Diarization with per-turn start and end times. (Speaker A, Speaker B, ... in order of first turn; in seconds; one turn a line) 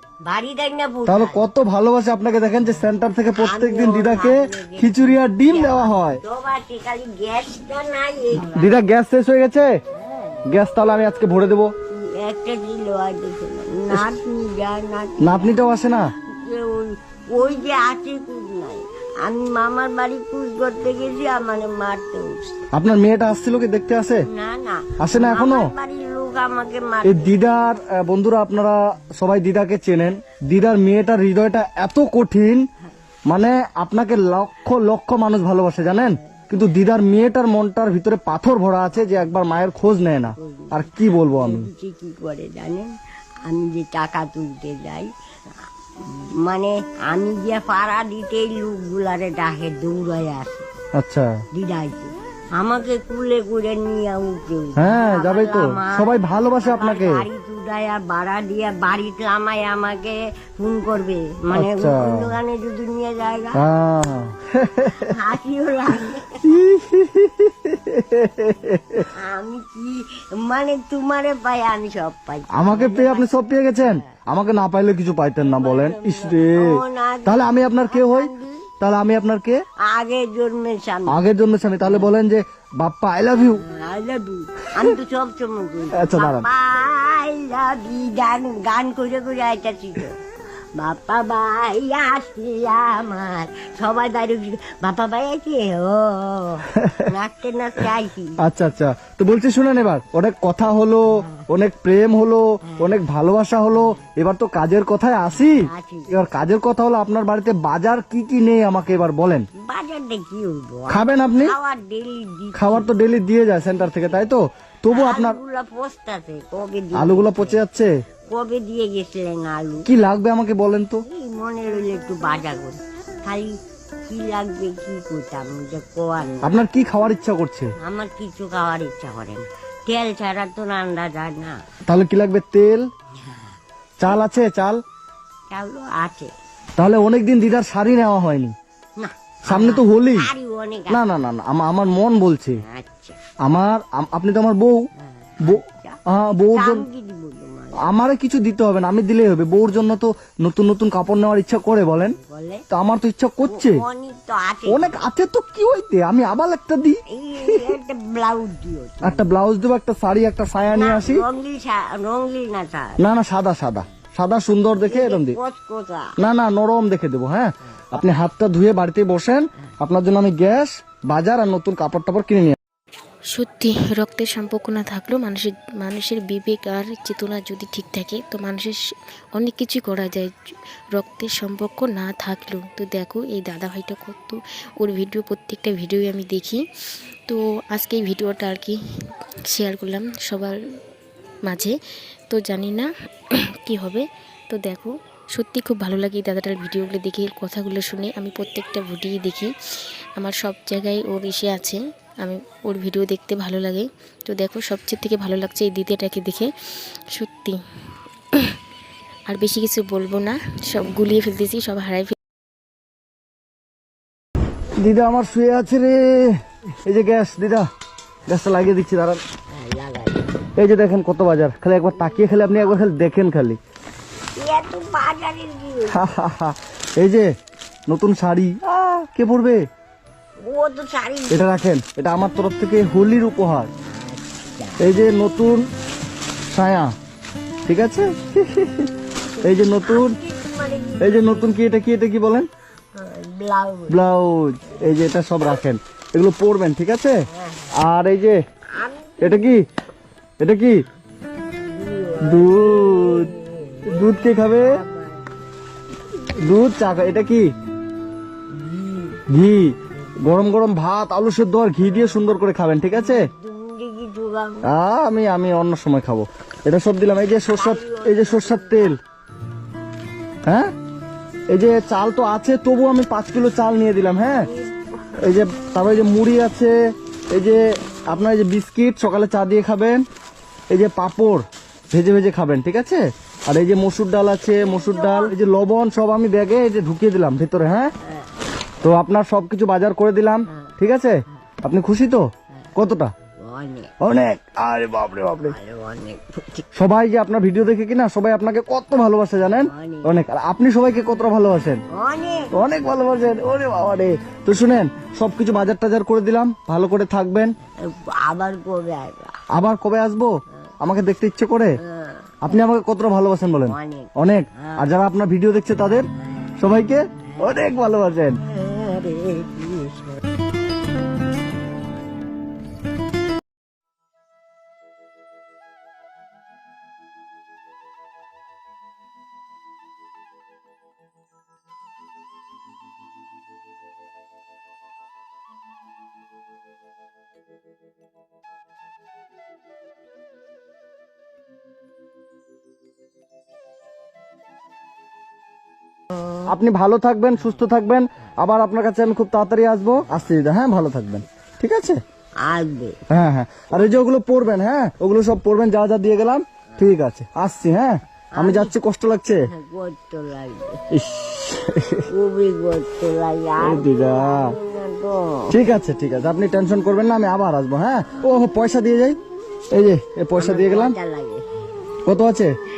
Speaker A: 0.2-1.4
Speaker B: 1.1-6.2
Speaker A: 3.3-8.8
Speaker B: 8.3-9.7
Speaker A: 9.9-10.4
Speaker B: 10.5-11.7
Speaker A: 11.9-15.6
Speaker B: 15.2-16.1
Speaker A: 16.2-22.6
Speaker B: 22.7-24.2
Speaker A: 24.3-27.5
Speaker B: 25.0-25.7
Speaker B: 27.0-32.6
Speaker B: 33.3-41.7
Speaker A: 35.9-36.5
Speaker A: 40.4-42.9
Speaker A: 43.4-45.1
Speaker A: 46.0-50.7
Speaker B: 50.9-51.3
Speaker A: 51.5-63.6
Speaker B: 54.8-57.2
Speaker B: 61.5-62.3
Speaker B: 63.6-65.1
Speaker A: 64.8-66.7
Speaker B: 66.4-69.1
Speaker A: 69.1-74.2
Speaker B: 72.5-79.6
Speaker A: 75.4-78.7
Speaker A: 79.8-81.2
Speaker B: 81.1-83.6
Speaker A: 81.8-82.1
Speaker A: 83.3-90.2
Speaker B: 85.9-86.5
Speaker A: 90.8-98.4
Speaker B: 96.8-97.1
Speaker B: 98.4-109.5
Speaker A: 101.1-101.5
Speaker A: 102.6-103.0
Speaker A: 103.7-104.0
Speaker A: 105.3-106.1
Speaker A: 109.7-112.9
Speaker B: 110.9-111.5
Speaker B: 112.5-115.4
Speaker A: 114.9-117.6
Speaker B: 116.9-117.9
Speaker A: 118.3-119.9
Speaker B: 119.8-121.0
Speaker A: 121.0-126.6
Speaker B: 126.4-127.7
Speaker A: 127.8-131.6
Speaker B: 131.9-132.8
Speaker A: 133.2-133.5
Speaker B: 134.0-134.8
Speaker A: 135.5-136.3
Speaker B: 136.8-138.5
Speaker A: 139.0-141.0
Speaker B: 139.5-140.3
Speaker B: 140.9-142.6
Speaker A: 142.6-143.2
Speaker B: 143.4-144.8
Speaker A: 145.0-146.0
Speaker B: 145.4-146.8
Speaker A: 146.5-147.8
Speaker B: 147.8-152.1
Speaker A: 152.2-152.6
Speaker B: 152.7-153.8
Speaker A: 153.5-155.0
Speaker B: 154.7-157.7
Speaker A: 157.1-159.3
Speaker B: 159.0-161.2
Speaker A: 160.7-163.0
Speaker B: 163.0-165.4
Speaker A: 164.8-166.2
Speaker B: 166.2-172.6
Speaker C: 173.3-178.8
Speaker C: 179.3-180.3
Speaker C: 180.9-186.6
Speaker C: 187.3-188.8
Speaker C: 189.5-190.6
Speaker C: 191.4-191.7
Speaker C: 192.3-192.9
Speaker C: 193.6-199.5
Speaker C: 200.2-206.5
Speaker C: 207.1-207.6
Speaker C: 208.3-208.6
Speaker C: 209.3-212.1
Speaker B: 214.8-216.3
Speaker B: 216.8-217.7
Speaker B: 218.3-219.2
Speaker A: 219.5-220.3
Speaker B: 220.6-223.6
Speaker A: 221.9-222.8
Speaker A: 224.3-226.1
Speaker B: 225.9-227.3
Speaker B: 227.9-229.6
Speaker A: 230.4-231.5
Speaker B: 231.3-233.7
Speaker A: 233.9-234.8
Speaker B: 234.8-235.6
Speaker B: 236.5-236.9
Speaker B: 237.7-238.9
Speaker A: 239.3-241.4
Speaker B: 239.4-240.2
Speaker B: 241.0-242.5
Speaker A: 242.9-244.0
Speaker B: 243.9-247.2
Speaker A: 247.3-247.7
Speaker B: 247.7-248.4
Speaker A: 248.7-249.6
Speaker B: 249.2-249.6
Speaker B: 250.4-250.8
Speaker A: 251.7-255.3
Speaker B: 252.2-253.3
Speaker B: 253.9-254.7
Speaker B: 256.4-257.5
Speaker A: 258.5-259.2
Speaker B: 259.3-263.3
Speaker A: 262.9-264.7
Speaker B: 264.7-268.9
Speaker A: 267.5-268.9
Speaker B: 271.5-274.5
Speaker A: 274.3-275.1
Speaker B: 275.2-276.7
Speaker B: 277.3-280.0
Speaker B: 280.7-287.9
Speaker A: 284.6-285.4
Speaker A: 288.1-288.3
Speaker B: 288.8-292.2
Speaker B: 292.8-293.1
Speaker A: 293.4-293.9
Speaker B: 294.0-295.6
Speaker A: 295.5-296.7
Speaker B: 296.8-301.8
Speaker A: 299.5-300.1
Speaker A: 301.9-302.5
Speaker B: 302.5-307.5
Speaker A: 307.8-309.4
Speaker B: 309.5-311.8
Speaker A: 311.8-312.3
Speaker B: 312.4-316.1
Speaker A: 313.6-314.9
Speaker A: 316.1-316.6
Speaker B: 316.6-318.4
Speaker A: 317.2-317.7
Speaker A: 318.4-320.2
Speaker B: 346.4-352.0
Speaker A: 352.4-353.0
Speaker B: 353.1-359.4
Speaker A: 358.3-358.7
Speaker A: 359.4-360.9
Speaker B: 360.9-362.1
Speaker A: 362.1-365.6
Speaker B: 363.6-364.5
Speaker B: 365.5-369.2
Speaker B: 369.7-370.9
Speaker A: 370.3-371.4
Speaker B: 372.1-372.5